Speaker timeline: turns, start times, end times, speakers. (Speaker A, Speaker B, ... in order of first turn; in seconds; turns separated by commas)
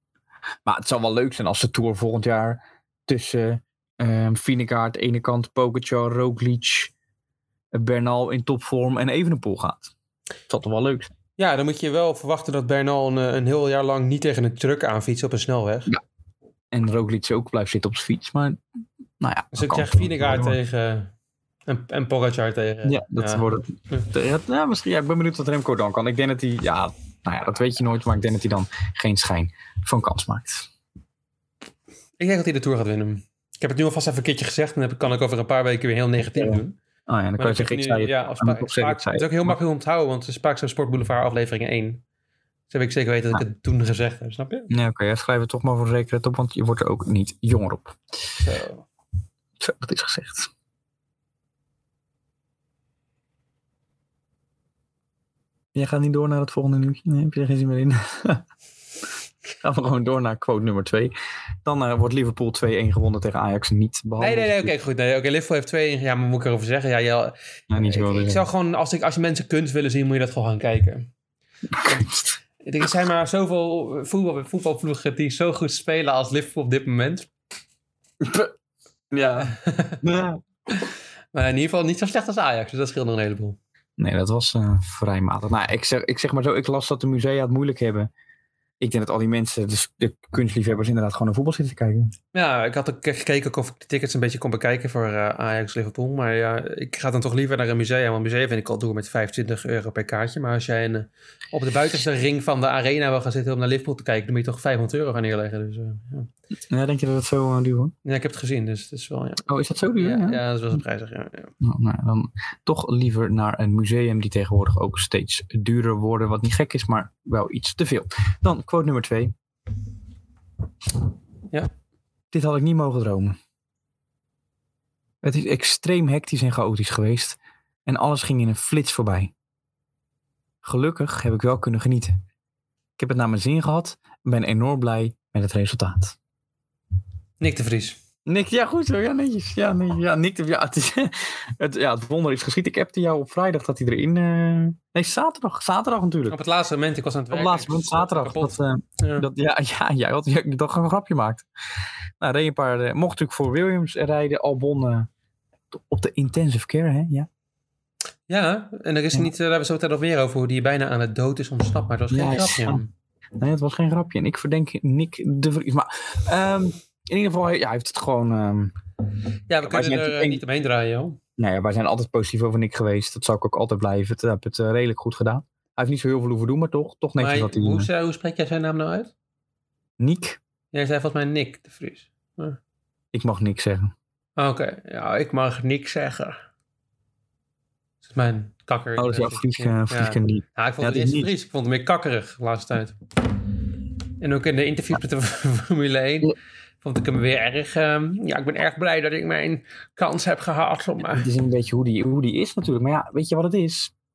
Speaker A: 0.7-6.9, Speaker A: 7.7-9.9, Speaker A: 10.5-11.1, Speaker B: 11.4-15.9, Speaker A: 16.7-18.6, Speaker A: 19.2-20.6, Speaker B: 19.5-21.1, Speaker B: 21.7-24.1, Speaker A: 22.9-30.7, Speaker B: 32.2-36.8, Speaker A: 36.3-39.6, Speaker B: 37.4-42.0, Speaker B: 42.7-44.7, Speaker A: 44.7-48.0, Speaker B: 48.4-48.9, Speaker A: 49.6-50.5, Speaker A: 55.8-58.4, Speaker A: 59.6-61.1, Speaker A: 61.6-64.7, Speaker B: 64.2-71.1, Speaker A: 67.7-68.4, Speaker A: 71.7-72.4, Speaker B: 72.6-77.3, Speaker A: 78.2-78.5, Speaker A: 79.1-80.4, Speaker B: 79.4-80.0, Speaker B: 80.8-83.6, Speaker A: 84.0-88.1, Speaker A: 88.8-92.1, Speaker B: 92.3-106.3, Speaker A: 106.7-107.9, Speaker B: 108.0-109.5, Speaker A: 109.5-110.4, Speaker B: 110.0-111.5, Speaker A: 111.6-119.3, Speaker A: 122.3-123.4, Speaker A: 125.2-129.3, Speaker A: 130.6-132.2, Speaker A: 133.0-136.2, Speaker B: 137.4-138.0, Speaker A: 138.3-146.4, Speaker B: 146.3-149.3, Speaker A: 147.3-151.5, Speaker A: 152.2-155.1, Speaker A: 155.7-157.3, Speaker B: 158.3-162.9, Speaker A: 162.1-162.8, Speaker A: 163.4-168.8, Speaker B: 169.5-171.2, Speaker A: 169.6-170.4, Speaker A: 171.4-177.9, Speaker B: 177.2-179.1, Speaker A: 180.0-180.4, Speaker B: 180.7-182.6, Speaker A: 183.1-183.9, Speaker B: 184.4-186.4, Speaker B: 188.1-193.0, Speaker A: 189.0-191.3, Speaker B: 194.2-201.3, Speaker A: 201.1-203.9